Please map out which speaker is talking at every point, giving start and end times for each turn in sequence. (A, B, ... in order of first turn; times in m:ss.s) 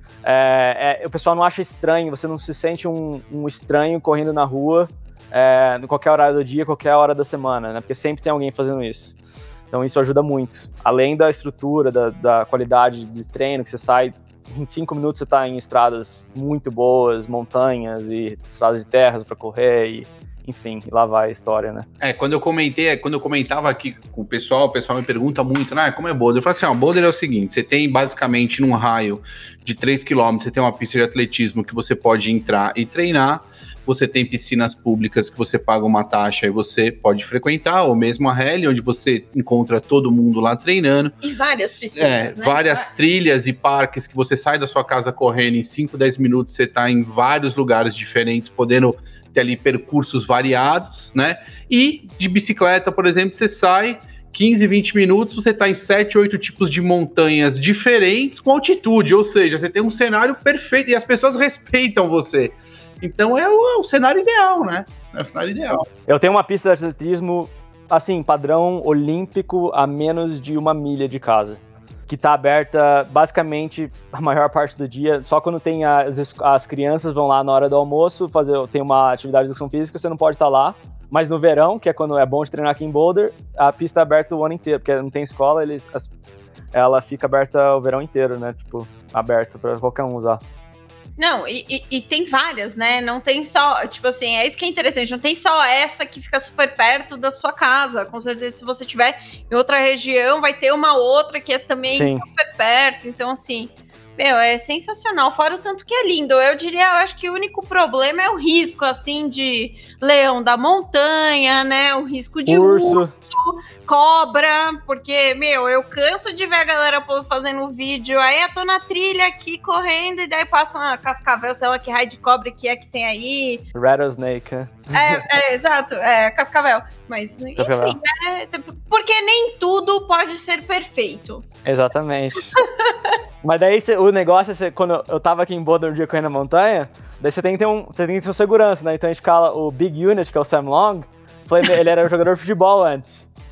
0:00.2-0:09.1 A
0:09.7-0:21.9 A
0:22.0-0:41.1 B
0:41.2-0:42.9 C
0:41.7-1:05.8 B
1:06.0-1:26.1 A
1:26.7-1:30.4 A
1:31.2-2:03.6 C
1:41.9-1:42.2 A
1:52.5-1:53.1 A
2:03.7-2:05.2 A
2:04.9-2:11.4 C
2:07.6-2:08.0 A
2:11.6-2:12.6 A
2:12.6-2:12.9 C
2:13.4-2:23.3 A